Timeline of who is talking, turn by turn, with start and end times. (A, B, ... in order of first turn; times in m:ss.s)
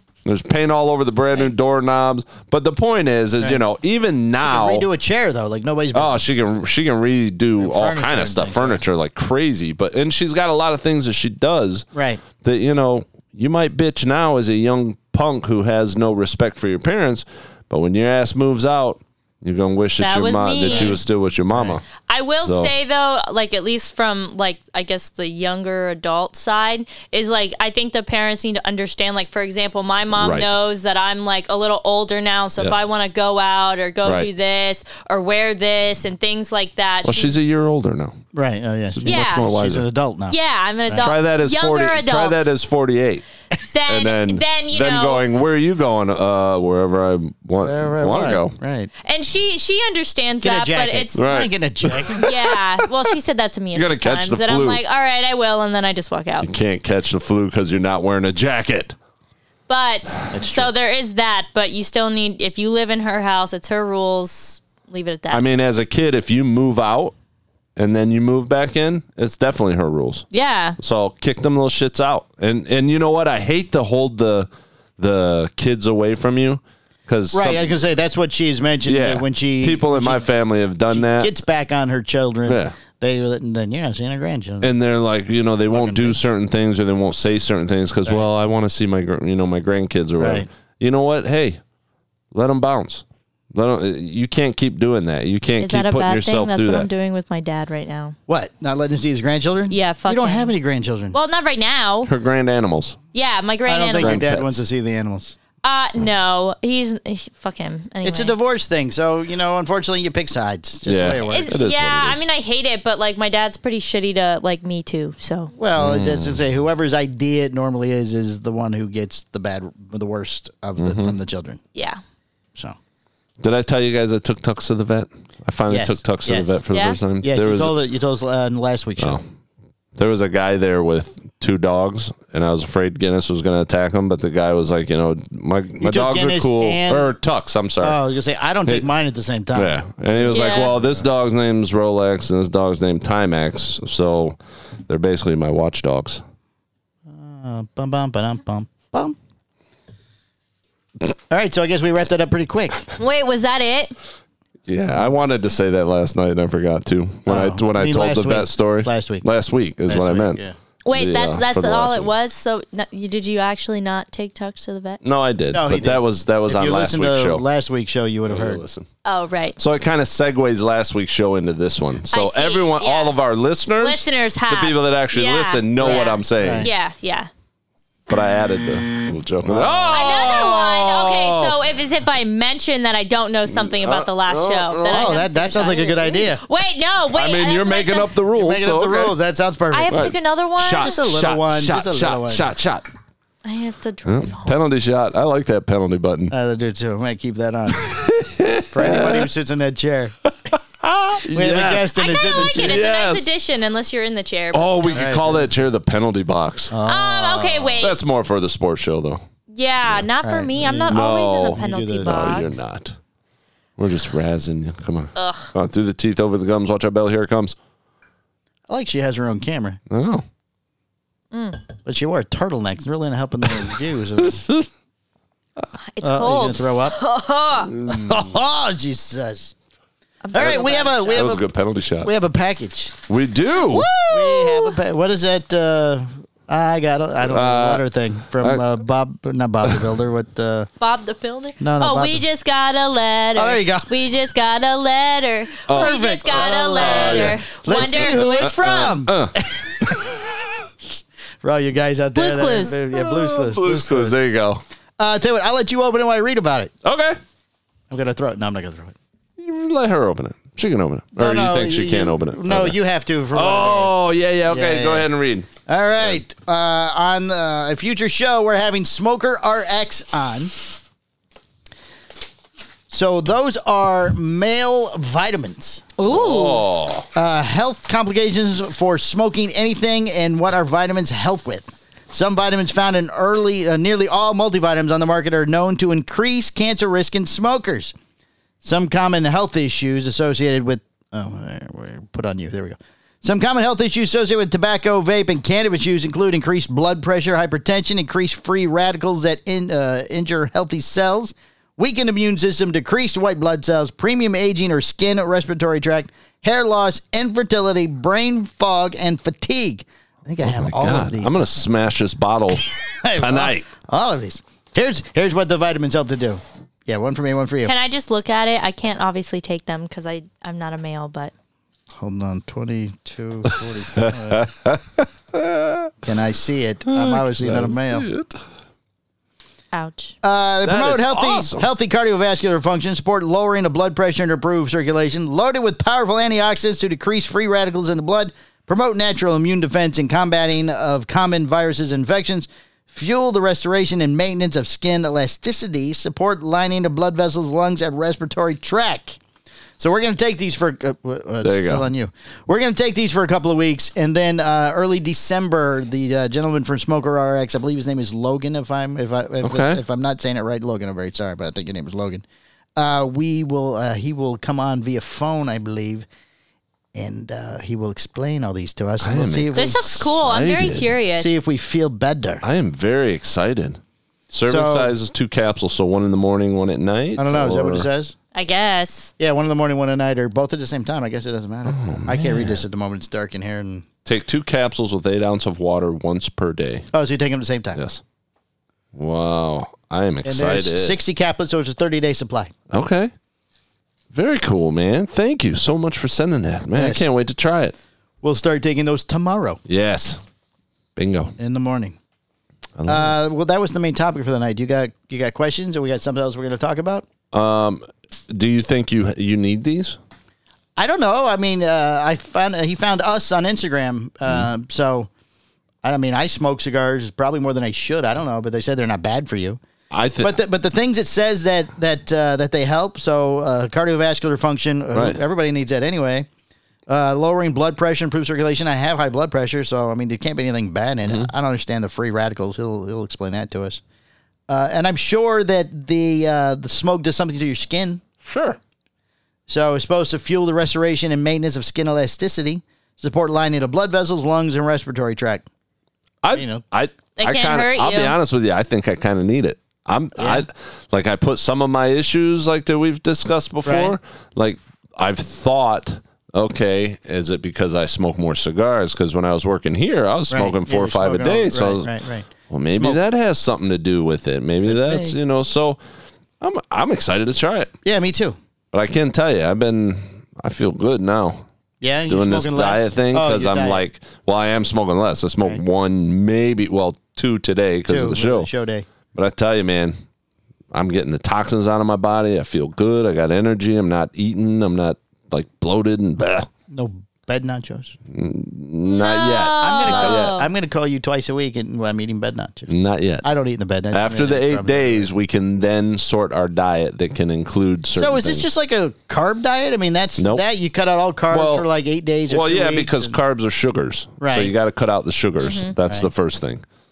0:00.2-0:04.8 A
0:04.4-0:06.3 B
0:05.9-0:11.8 A
0:07.6-0:08.8 B
0:11.9-0:12.2 B
0:12.4-0:21.8 A
0:20.0-0:21.0 C
0:20.7-0:21.0 B
0:21.5-0:21.8 B
0:22.1-0:37.4 C
0:22.4-0:22.7 A
0:30.2-0:30.5 A
0:37.0-0:38.2 A
0:38.3-0:40.3 B
0:38.9-0:39.9 A
0:39.0-0:39.5 C
0:40.3-0:42.4 C
0:40.9-0:43.2 A
0:43.6-0:45.3 C
0:43.9-0:48.6 A
0:47.6-0:48.9 B
0:49.0-0:51.2 C
0:50.4-0:52.3 B
0:51.1-0:52.9 A
0:52.2-0:56.5 C
0:53.7-0:54.8 A
0:56.4-0:59.0 A
0:59.7-1:05.4 C
1:00.3-1:00.7 B
1:05.3-1:07.1 A
1:07.8-1:10.2 A
1:10.3-1:10.8 C
1:10.8-1:17.7 A
1:17.3-1:20.2 B
1:18.8-1:21.3 A
1:20.9-1:24.7 B
1:22.4-1:22.7 A
1:24.6-1:31.6 A
1:25.7-1:26.2 B
1:30.2-1:30.5 B
1:32.3-1:36.9 A
1:35.6-1:38.2 C
1:38.3-1:41.2 B
1:39.7-1:40.5 C
1:41.1-1:42.1 C
1:42.0-1:43.0 A
1:43.1-1:44.2 C
1:43.7-1:45.4 B
1:44.0-1:44.6 A
1:45.6-1:48.4 C
1:48.0-1:51.5 B
1:50.8-1:52.2 A
1:51.2-1:55.5 C
1:55.6-2:01.6 B
1:55.8-1:56.4 A
2:00.8-2:01.1 A
2:01.7-2:02.0 C
2:03.4-2:07.8 A
2:05.7-2:06.6 B
2:06.7-2:07.0 C
2:07.2-2:09.2 B
2:10.0-2:18.0 A
2:15.8-2:17.1 B
2:17.8-2:21.0 B
2:19.5-2:24.4 A
2:20.3-2:20.7 C
2:24.9-2:26.2 A
2:27.1-2:29.2 B
2:31.3-2:32.9 B
2:33.0-2:33.9 C
2:34.7-2:40.4 A
2:37.2-2:39.2 B
2:39.8-2:40.5 B
2:40.8-2:45.0 C
2:40.9-2:42.1 A
2:45.0-2:47.4 A
2:45.5-2:48.6 B
2:48.3-2:48.9 A
2:49.0-2:49.6 C
2:49.6-2:56.7 A
2:52.1-2:53.1 C
2:53.8-2:57.3 C
2:55.8-2:56.7 B
2:58.1-3:01.6 A
2:59.4-2:59.9 B
2:59.9-3:08.1 C
3:03.5-3:05.2 A
3:04.9-3:06.4 B
3:07.1-3:09.1 A
3:08.3-3:10.1 B
3:09.7-3:11.0 C
3:09.9-3:12.8 A
3:10.8-3:12.5 B
3:13.4-3:14.5 C
3:14.0-3:16.3 A
3:16.3-3:17.9 B
3:17.7-3:19.3 A
3:18.7-3:20.1 B
3:20.5-3:23.3 A
3:21.2-3:22.8 B
3:21.9-3:25.2 C
3:24.5-3:26.8 A
3:24.9-3:25.5 B
3:26.7-3:27.8 B
3:26.8-3:28.0 C
3:27.8-3:29.2 A
3:29.5-3:32.6 C
3:30.2-3:32.2 B
3:30.9-3:33.0 A
3:33.8-3:37.5 A
3:35.2-3:35.5 C
3:38.7-3:39.8 B
3:39.9-3:40.2 A
3:41.3-3:41.6 C
3:41.8-3:44.5 B
3:44.2-3:44.7 A
3:45.9-3:47.7 C
3:46.0-3:47.0 B
3:47.7-3:48.2 A
3:47.8-3:49.5 B
3:50.2-3:51.3 C
3:50.3-3:51.4 B
3:50.4-3:52.1 A
3:52.0-3:53.0 B
3:53.1-3:53.9 A
3:53.7-3:54.7 C
3:54.1-4:00.7 B
3:57.2-3:57.8 A
3:58.4-3:58.6 A
4:00.8-4:09.0 C
4:01.6-4:02.2 B
4:03.4-4:03.9 B
4:05.7-4:10.1 A
4:05.7-4:10.3 B
4:11.4-4:14.2 B
4:12.1-4:12.8 C
4:12.9-4:14.6 A
4:15.0-4:16.7 B
4:16.8-4:17.2 A
4:17.9-4:19.0 B
4:19.4-4:22.7 A
4:21.2-4:23.9 B
4:23.3-4:25.5 A
4:24.5-4:25.1 B
4:25.6-4:30.6 B
4:32.9-4:35.9 B
4:36.0-4:36.6 C
4:36.0-4:37.1 A
4:37.1-4:47.9 B
4:48.6-5:11.4 B
5:10.4-5:13.6 A
5:13.0-5:17.7 B
5:17.6-5:21.3 C
5:22.0-5:24.5 B
5:23.5-5:25.9 A
5:26.0-5:28.1 B
5:26.9-5:28.4 A
5:29.7-5:30.2 C
5:30.2-5:49.2 B
5:30.6-5:31.7 A
5:49.8-6:02.2 B
5:51.4-5:51.9 A
5:59.4-5:59.8 A
6:02.8-6:06.0 B
6:06.9-6:09.8 B
6:09.0-6:10.9 A
6:09.5-6:11.4 C
6:11.1-6:12.4 B
6:12.4-6:13.8 A
6:14.3-6:17.9 A
6:14.5-6:14.9 B
6:17.2-6:18.1 B
6:18.3-6:19.1 C
6:19.2-6:23.9 B
6:21.6-6:22.6 A
6:24.0-6:26.9 A
6:26.9-6:27.8 B
6:27.8-6:28.0 A
6:28.9-6:31.0 A
6:30.2-6:32.5 B
6:32.7-6:33.1 A
6:34.1-6:37.7 A
6:36.7-6:37.1 B
6:38.2-6:39.6 B
6:39.7-6:40.2 A
6:41.0-6:41.3 A
6:41.4-6:42.0 B
6:42.8-6:43.1 A
6:42.8-6:47.1 B
6:47.3-6:50.0 A
6:50.8-6:55.1 B
6:55.8-6:59.6 B
6:59.9-7:00.3 A
7:00.2-7:06.3 B
7:04.9-7:05.2 A
7:06.9-7:13.8 B
7:11.0-7:11.3 A
7:14.5-7:18.0 B
7:18.2-7:18.6 A
7:19.5-7:25.4 B
7:26.2-7:41.9 A
7:26.3-7:26.6 B
7:27.2-7:28.2 C
7:30.2-7:30.4 B
7:33.6-7:34.0 B
7:40.3-7:43.0 B
7:42.5-7:45.8 A
7:44.6-7:45.2 B
7:46.4-7:47.7 A
7:47.8-7:48.4 B
7:48.7-7:51.4 A
7:51.8-7:53.8 B
7:52.1-7:58.5 A
7:57.9-7:58.8 B
7:59.1-7:59.9 A
8:00.7-8:06.5 A
8:06.7-8:07.9 B
8:08.1-8:10.4 A
8:08.8-8:10.5 C
8:09.6-8:12.7 B
8:12.7-8:13.2 A
8:13.2-8:15.1 B
8:13.9-8:18.5 A
8:17.9-8:23.2 B
8:20.2-8:20.4 A
8:21.3-8:21.6 A
8:22.3-8:26.6 A
8:24.2-8:24.5 B
8:25.4-8:25.7 C